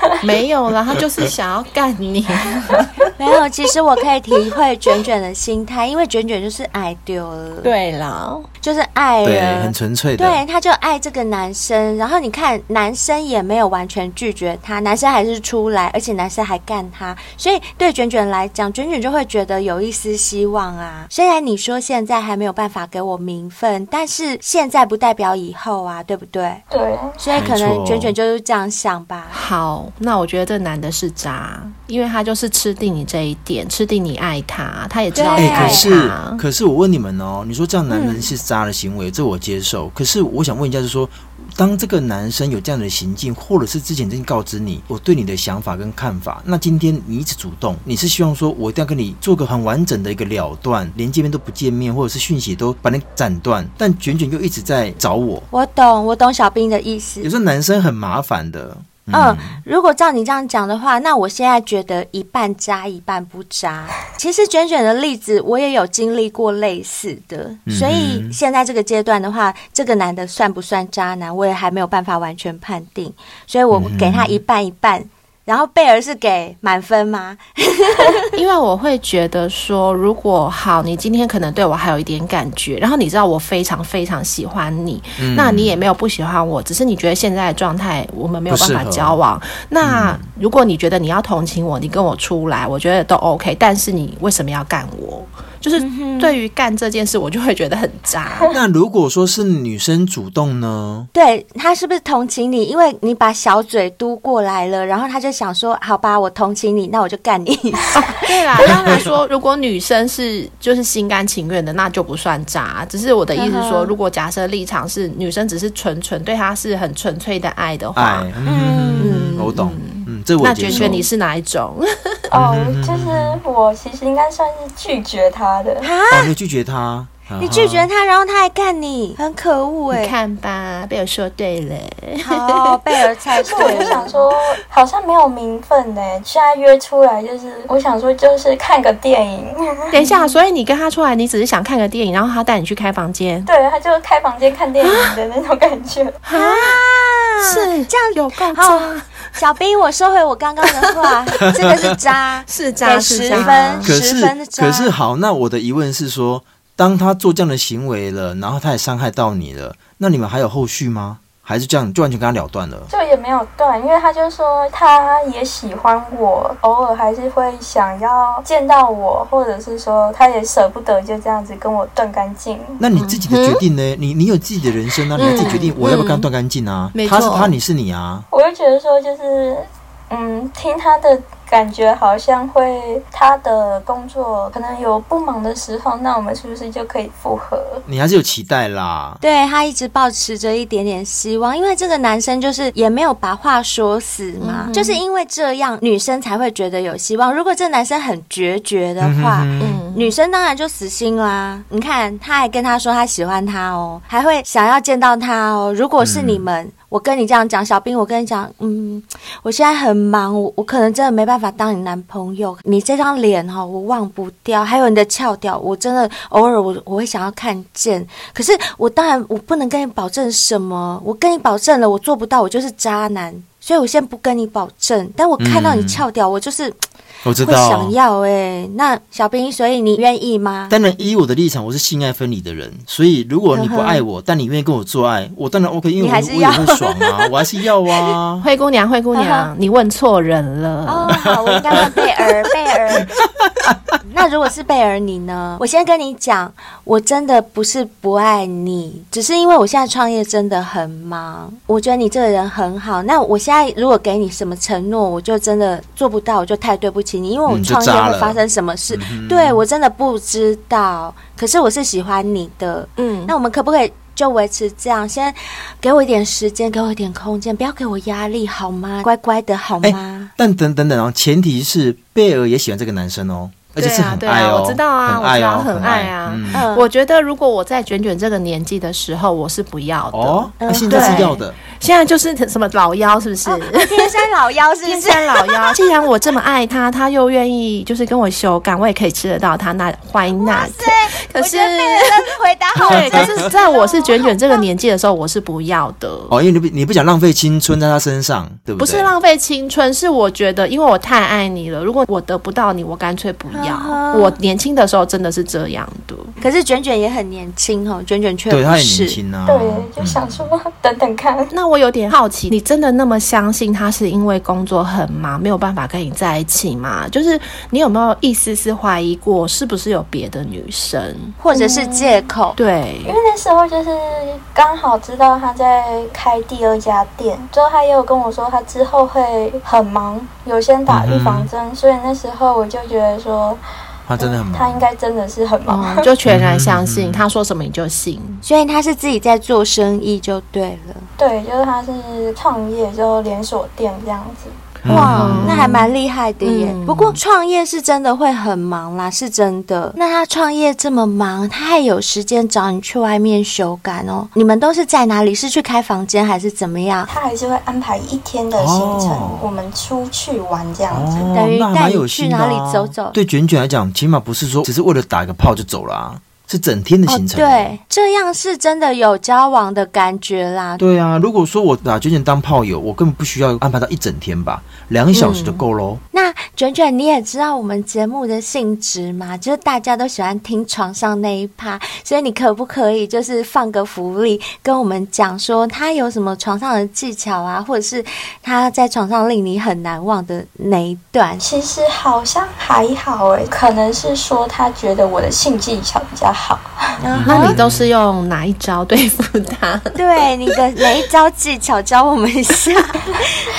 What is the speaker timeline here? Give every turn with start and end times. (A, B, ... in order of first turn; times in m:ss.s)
0:00.2-0:03.0 A
0:01.0-0:01.3 B
0:03.2-0:07.7 C
0:07.6-0:08.5 A
0:08.6-0:26.6 C
0:09.2-0:10.4 B
0:26.7-0:27.2 D
0:27.2-0:29.4 C
0:27.4-0:28.1 B
0:29.3-0:36.4 A
0:35.1-0:35.9 C
0:35.3-0:55.5 B
0:37.9-0:38.2 C
0:55.5-0:57.3 C
0:57.2-0:59.6 B
0:59.1-1:18.3 C
1:07.7-1:08.4 B
1:13.7-1:14.4 B
1:18.3-1:38.5 A
1:25.2-1:25.8 B
1:28.5-1:29.2 B
1:29.8-1:30.2 B
1:35.8-1:36.4 C
1:38.5-1:41.1 B
1:41.1-1:48.9 C
1:48.0-1:58.3 A
1:53.3-1:53.9 C
1:57.9-2:01.0 B
1:58.4-1:59.3 C
1:59.0-2:02.2 A
2:00.7-2:01.0 C
2:02.3-2:05.9 D
2:02.3-2:03.4 B
2:05.8-2:06.3 C
2:06.1-2:07.9 B
2:07.4-2:10.1 C
2:09.9-2:12.9 A
2:12.2-2:14.2 C
2:13.4-2:20.0 D
2:13.5-2:14.1 A
2:19.9-2:23.5 A
2:20.0-2:20.3 C
2:23.5-2:26.2 D
2:24.8-2:25.2 A
2:26.2-2:26.8 A
2:26.3-2:34.9 C
2:27.4-2:29.2 A
2:32.5-2:33.9 A
2:33.4-2:42.9 B
2:42.9-2:52.8 D
2:52.8-2:58.3 B
2:53.0-2:53.6 A
2:55.2-2:56.3 A
2:56.9-2:57.5 A
2:58.3-3:07.8 D
3:07.8-3:09.2 B
3:09.2-3:46.8 C
3:14.4-3:15.0 A
3:19.0-3:19.8 B
3:19.6-3:20.1 A
3:26.0-3:26.4 B
3:45.4-3:46.0 B
3:47.2-3:47.9 B
3:47.4-3:50.7 C
3:50.7-3:58.4 B
3:53.5-3:54.0 C
3:56.0-3:57.3 C
3:58.4-4:01.2 A
3:59.1-3:59.5 C
4:00.8-4:03.1 C
4:04.0-4:30.3 C
4:17.5-4:19.6 B
4:23.0-4:23.3 A
4:29.8-4:36.7 B
4:33.8-4:44.2 A
4:36.5-4:36.9 C
4:40.1-4:41.6 B
4:40.6-4:41.4 C
4:43.4-4:45.9 C
4:44.8-4:52.2 A
4:50.3-4:54.6 C
4:52.7-4:56.3 A
4:52.9-4:53.3 B
4:56.3-4:59.1 B
4:58.8-5:06.3 A
5:03.5-5:04.4 C
5:06.4-5:09.2 C
5:08.5-5:10.5 B
5:09.4-5:11.5 D
5:11.5-5:21.9 A
5:21.4-5:22.6 C
5:22.6-5:23.2 A
5:23.0-5:33.6 D
5:30.9-5:31.5 B
5:34.1-5:34.8 B
5:34.2-5:36.1 D
5:35.7-5:38.4 A
5:36.3-5:37.2 B
5:38.4-5:41.1 C
5:41.2-5:44.6 D
5:44.8-5:45.7 B
5:44.9-5:57.1 C
5:44.9-5:45.9 A
5:46.4-5:47.2 A
5:57.1-6:01.3 D
5:58.5-5:59.5 B
6:00.9-6:07.8 B
6:01.3-6:03.2 C
6:07.1-6:10.8 C
6:10.8-6:16.0 B
6:15.1-6:15.6 A
6:16.1-6:31.4 C
6:31.4-6:36.8 D
6:37.0-6:37.6 C
6:37.1-6:37.9 B
6:37.2-6:40.0 A
6:39.9-6:43.5 C